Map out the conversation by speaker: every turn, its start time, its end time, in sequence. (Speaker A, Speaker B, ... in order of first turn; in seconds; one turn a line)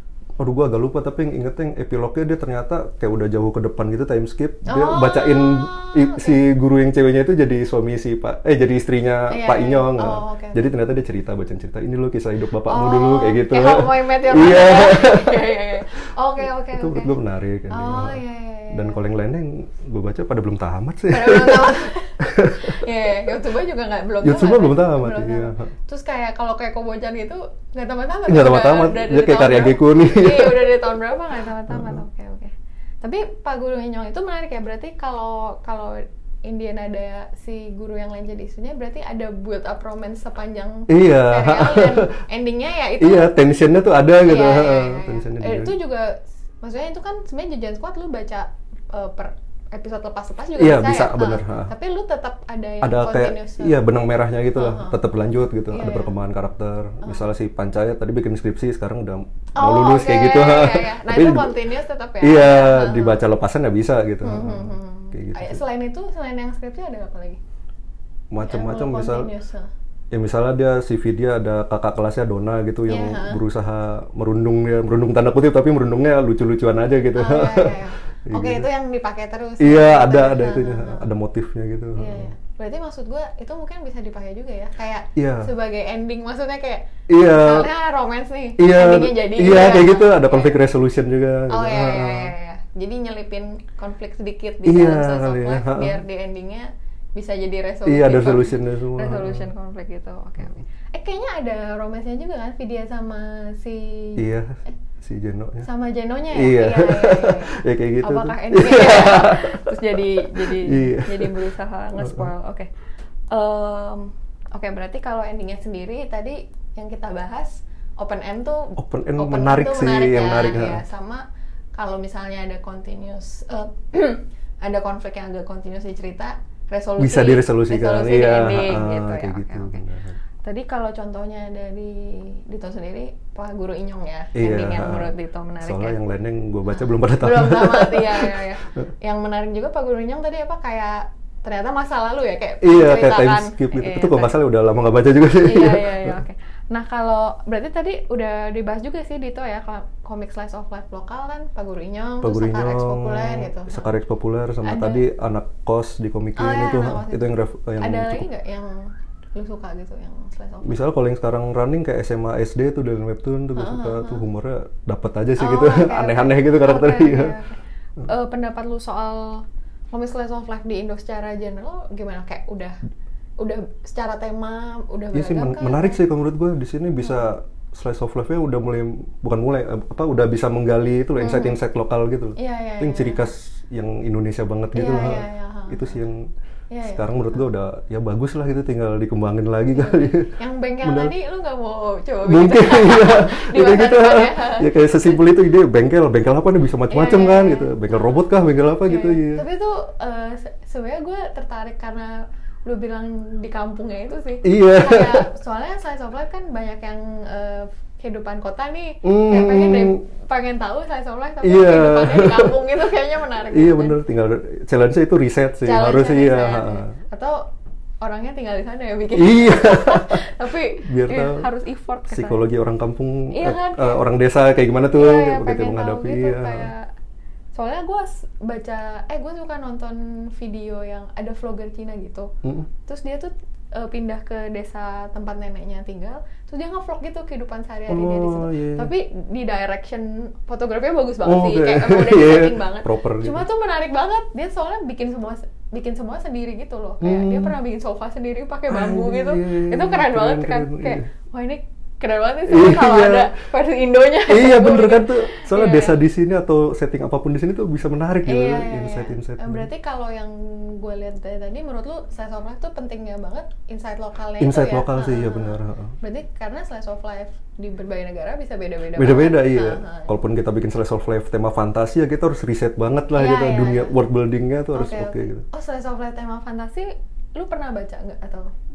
Speaker A: 0.4-15.7
Speaker B: 4.7-6.4
Speaker B: 9.3-10.7
Speaker B: 12.7-17.2
Speaker A: 16.7-18.2
Speaker B: 17.7-19.0
Speaker A: 18.7-22.9
Speaker B: 21.1-43.4
Speaker A: 24.2-25.7
Speaker A: 28.3-30.9
Speaker A: 31.7-32.0
Speaker A: 40.9-42.1
Speaker A: 43.0-45.8
Speaker B: 44.2-53.8
Speaker A: 50.6-51.7
Speaker A: 52.8-61.6
Speaker B: 54.5-55.2
Speaker B: 55.7-56.1
Speaker B: 59.6-63.2
Speaker A: 62.2-65.6
Speaker B: 64.2-67.4
Speaker A: 68.3-69.3
Speaker B: 68.4-69.7
Speaker A: 70.1-78.7
Speaker B: 72.9-73.4
Speaker B: 77.2-81.1
Speaker A: 79.6-82.3
Speaker B: 82.0-90.6
Speaker A: 85.2-85.5
Speaker A: 87.1-87.7
Speaker A: 88.6-92.3
Speaker B: 91.5-104.7
Speaker A: 94.7-96.0
Speaker A: 97.9-99.5
Speaker A: 104.2-105.7
Speaker B: 105.6-112.7
Speaker A: 106.3-111.4
Speaker A: 112.0-112.3
Speaker B: 113.3-121.2
Speaker A: 118.8-120.8
Speaker B: 121.8-129.8
Speaker A: 127.0-130.2
Speaker B: 130.4-136.0
Speaker A: 134.3-138.8
Speaker B: 136.7-144.4
Speaker A: 142.6-146.2
Speaker B: 145.4-153.9
Speaker A: 152.2-158.3
Speaker B: 154.6-155.1
Speaker B: 156.4-160.8
Speaker A: 160.6-167.4
Speaker B: 163.6-164.2
Speaker B: 165.4-172.8
Speaker B: 173.4-176.0
Speaker A: 175.1-186.3
Speaker B: 177.0-177.3
Speaker B: 181.2-181.6
Speaker B: 182.4-183.3
Speaker B: 184.7-186.0
Speaker B: 186.7-187.4
Speaker A: 186.8-191.1
Speaker B: 189.7-195.2
Speaker A: 192.3-199.4
Speaker B: 196.9-198.2
Speaker B: 198.8-214.0
Speaker A: 204.4-205.2
Speaker A: 209.0-210.0
Speaker A: 211.4-212.6
Speaker A: 213.5-216.9
Speaker B: 215.6-217.4
Speaker B: 218.0-222.5
Speaker A: 219.2-220.2
Speaker A: 220.8-221.5
Speaker A: 222.1-226.7
Speaker B: 223.3-224.0
Speaker B: 224.9-226.9
Speaker B: 227.6-232.3
Speaker A: 232.4-232.7
Speaker B: 232.8-256.0
Speaker A: 237.9-238.9
Speaker A: 241.2-243.4
Speaker A: 247.0-247.6
Speaker A: 248.7-251.1
Speaker A: 252.5-253.3
Speaker A: 254.3-259.7
Speaker B: 258.2-270.1
Speaker A: 264.4-266.0
Speaker A: 269.0-275.4
Speaker B: 273.1-273.9
Speaker B: 274.8-278.5